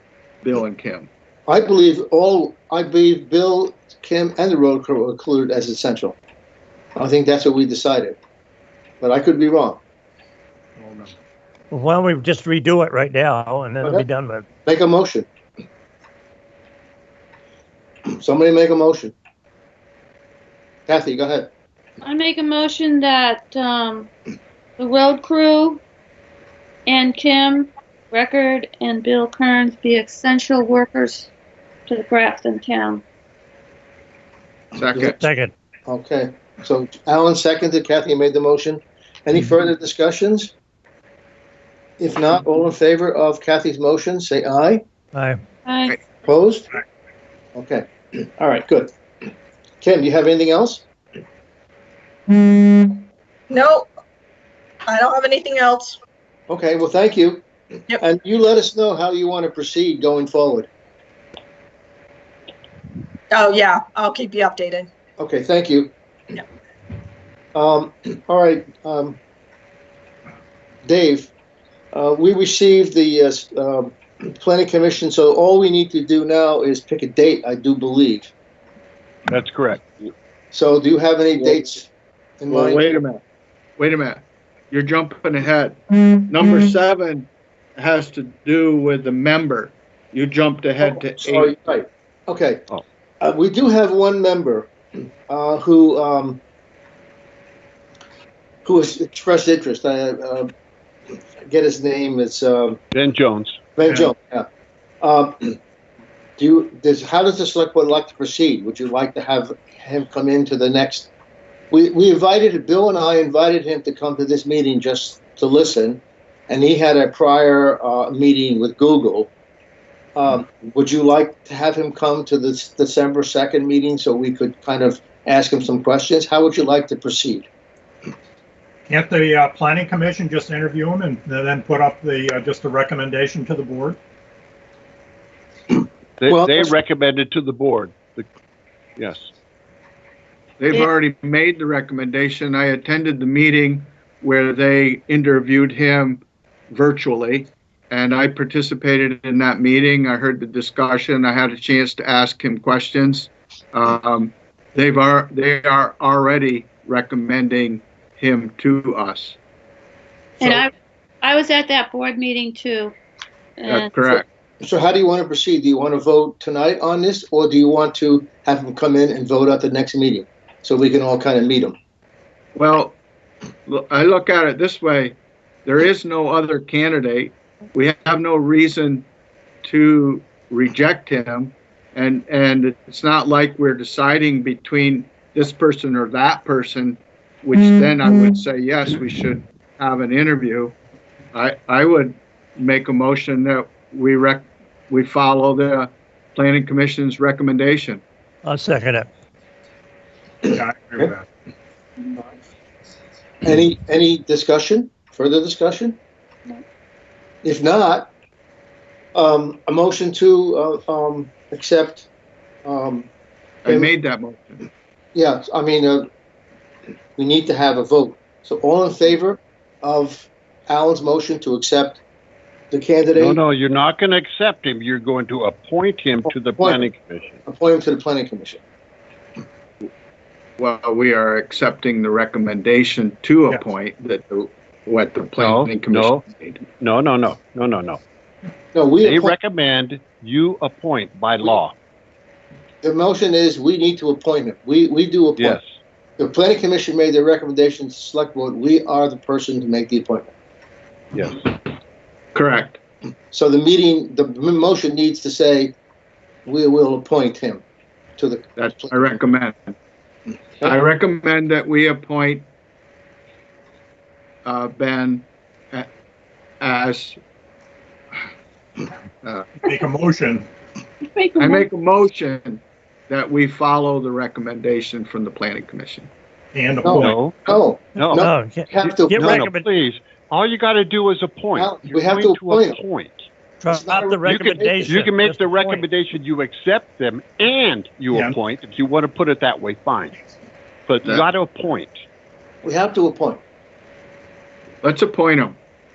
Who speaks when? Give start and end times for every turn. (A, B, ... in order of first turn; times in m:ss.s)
0:00.4-0:01.1 A
0:01.5-0:06.2 B
0:07.0-0:08.2 B
0:09.0-0:09.8 B
0:10.8-0:11.1 C
0:11.7-0:14.4 D
0:14.6-0:15.3 B
0:18.2-0:19.1 B
0:20.9-0:21.5 B
0:22.0-0:24.1 E
0:24.8-0:25.8 E
0:26.8-0:31.3 E
0:31.9-0:33.0 E
0:34.8-0:35.2 A
0:34.9-0:35.2 B
0:35.1-0:35.5 D
0:35.9-0:40.5 B
0:42.0-0:44.8 B
0:45.1-0:45.4 D
0:45.6-0:46.0 E
0:46.2-0:46.7 B
0:47.5-0:48.9 B
0:49.8-0:50.8 B
0:52.4-0:53.9 F
0:54.8-0:56.0 F
0:56.5-0:57.4 B
0:58.0-1:00.7 B
1:03.3-1:04.9 F
1:05.2-1:05.9 B
1:07.5-1:09.2 B
1:10.8-1:11.3 B
1:11.9-1:18.3 B
1:19.3-1:20.1 G
1:20.5-1:21.9 B
1:22.4-1:23.0 B
1:22.5-1:23.2 A
1:23.8-1:31.5 A
1:30.8-1:32.7 B
1:33.2-1:34.7 B
1:35.3-1:36.4 B
1:38.6-1:40.5 B
1:41.4-1:42.8 B
1:42.9-1:43.6 G
1:43.8-1:44.5 B
1:45.0-1:45.6 B
1:46.4-1:51.1 B
1:51.7-1:59.3 B
2:00.2-2:07.5 B
2:08.9-2:14.0 C
2:16.2-2:18.3 G
2:16.3-2:16.7 B
2:19.0-2:19.3 G
2:20.6-2:39.4 A
2:40.4-2:40.7 E
2:41.2-2:42.9 E
2:43.6-2:43.9 E
2:43.7-2:44.2 A
2:44.6-2:51.8 B
2:52.5-2:53.0 A
2:53.7-2:59.1 A
2:59.6-3:10.8 A
3:11.3-3:18.0 A
3:18.4-3:19.1 D
3:20.5-3:21.2 C
3:23.4-3:26.0 B
3:27.4-3:28.1 B
3:29.1-3:32.1 B
3:32.6-3:33.1 B
3:33.6-3:34.6 A
3:35.1-3:36.1 B
3:37.2-3:42.0 B
3:42.7-3:43.4 B
3:43.2-3:47.4 G
3:46.6-3:46.9 B
3:47.4-3:48.6 B
3:50.6-3:56.6 A
3:55.4-3:56.2 G
3:56.8-3:58.0 G
3:58.7-3:59.3 B
3:59.0-4:01.7 G
4:02.8-4:05.6 B
4:05.4-4:05.7 G
4:06.2-4:10.3 B
4:11.1-4:11.5 G
4:12.3-4:12.8 A
4:13.3-4:15.8 B
4:16.4-4:17.6 B
4:18.2-4:19.2 B
4:18.6-4:19.7 A
4:20.6-4:22.4 A
4:24.4-4:25.9 A
4:26.6-4:27.2 A
4:29.7-4:30.5 C
4:31.1-4:31.6 E
4:31.4-4:36.1 A
4:36.5-4:37.2 C
4:36.8-4:39.4 B
4:37.0-4:43.2 G
4:38.1-4:39.7 D
4:41.5-4:42.8 B
4:43.6-4:45.8 D
4:43.7-4:44.9 B
4:44.2-4:50.2 G
4:48.1-4:48.4 C
4:50.9-4:52.0 G
4:52.6-4:53.4 B
4:54.8-4:55.6 A